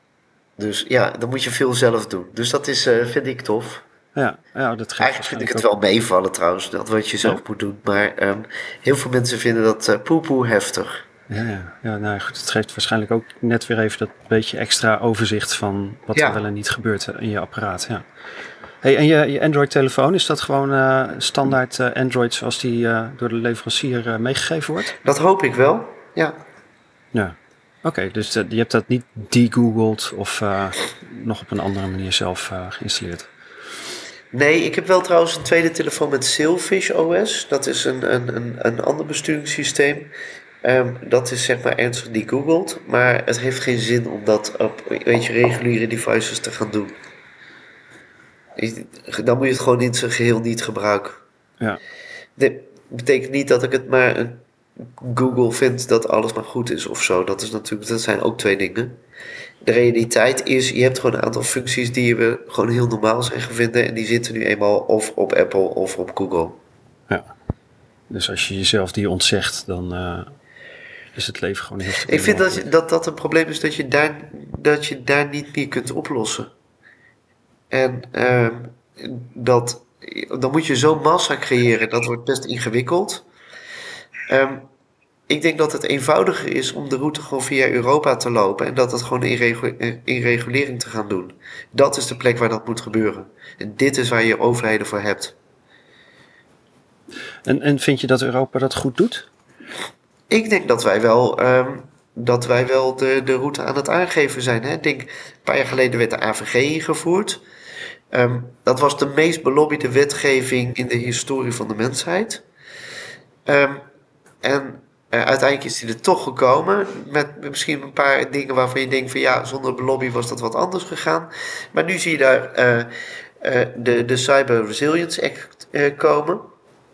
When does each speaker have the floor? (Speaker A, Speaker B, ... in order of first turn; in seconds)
Speaker A: 0.6-3.8, 5.0-11.0, 16.1-16.4, 25.0-26.4, 34.3-40.1, 40.6-47.0, 48.6-51.2, 52.4-54.4, 55.0-59.0, 59.6-66.6, 72.1-76.5, 77.7-83.2, 84.3-84.7, 85.3-95.3, 100.3-107.4, 108.1-112.4, 113.5-113.8, 114.4-126.5
Speaker B: 4.1-5.7, 11.3-18.0, 18.8-24.9, 27.1-33.3, 68.1-70.3, 71.1-72.7, 97.4-99.3